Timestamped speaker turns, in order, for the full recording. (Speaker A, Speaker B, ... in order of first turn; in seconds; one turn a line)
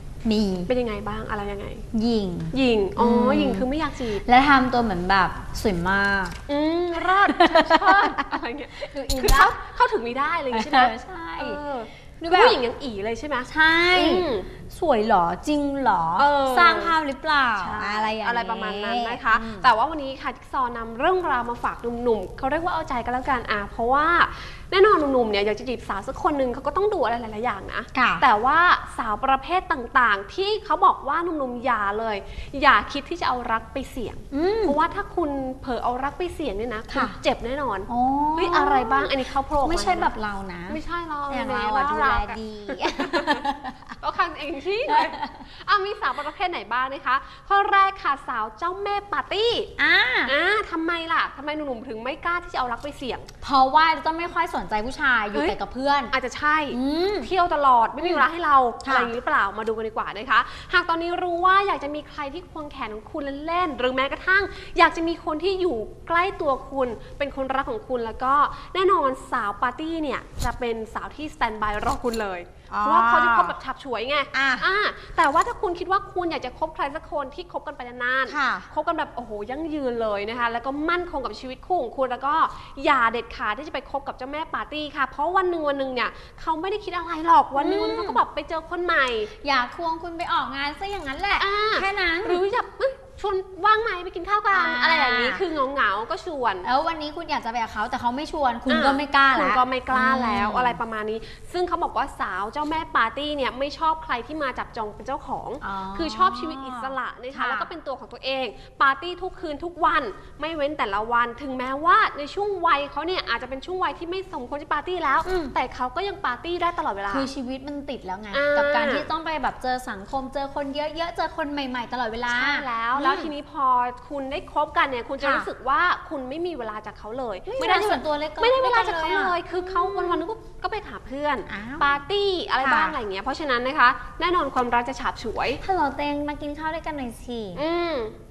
Speaker A: 0.2-0.7
Speaker B: 0.7-1.8
Speaker A: 1.9-3.7
Speaker B: 2.5-4.2
Speaker A: 4.2-6.4
Speaker B: 6.5-14.5
Speaker A: 7.3-8.3
Speaker A: 8.8-9.6
Speaker A: 10.5-11.6
Speaker A: 12.2-12.6
Speaker A: 13.5-19.7
Speaker B: 16.2-17.0
Speaker B: 17.6-40.1
Speaker A: 27.9-28.2
Speaker A: 34.3-34.8
Speaker A: 36.9-37.1
Speaker A: 37.9-44.0
Speaker B: 40.7-43.5
Speaker B: 44.0-49.7
Speaker A: 44.9-45.4
Speaker A: 49.8-50.3
Speaker B: 50.2-53.3
Speaker A: 53.4-56.1
Speaker B: 56.1-89.3
Speaker A: 56.7-57.3
Speaker A: 58.0-58.2
Speaker A: 58.8-59.1
Speaker A: 72.7-73.5
Speaker A: 74.3-74.7
Speaker A: 78.3-78.7
Speaker A: 87.5-88.2
Speaker A: 89.4-92.4
Speaker B: 91.4-96.7
Speaker A: 94.5-95.4
Speaker A: 96.6-100.8
Speaker B: 98.7-117.3
Speaker A: 105.6-107.7
Speaker A: 115.2-115.5
Speaker A: 117.1-123.3
Speaker B: 118.3-119.0
Speaker B: 122.3-135.6
Speaker A: 125.2-125.5
Speaker A: 127.5-130.2
Speaker A: 131.5-132.0
Speaker A: 132.6-133.0
Speaker A: 135.6-137.6
Speaker B: 137.6-138.2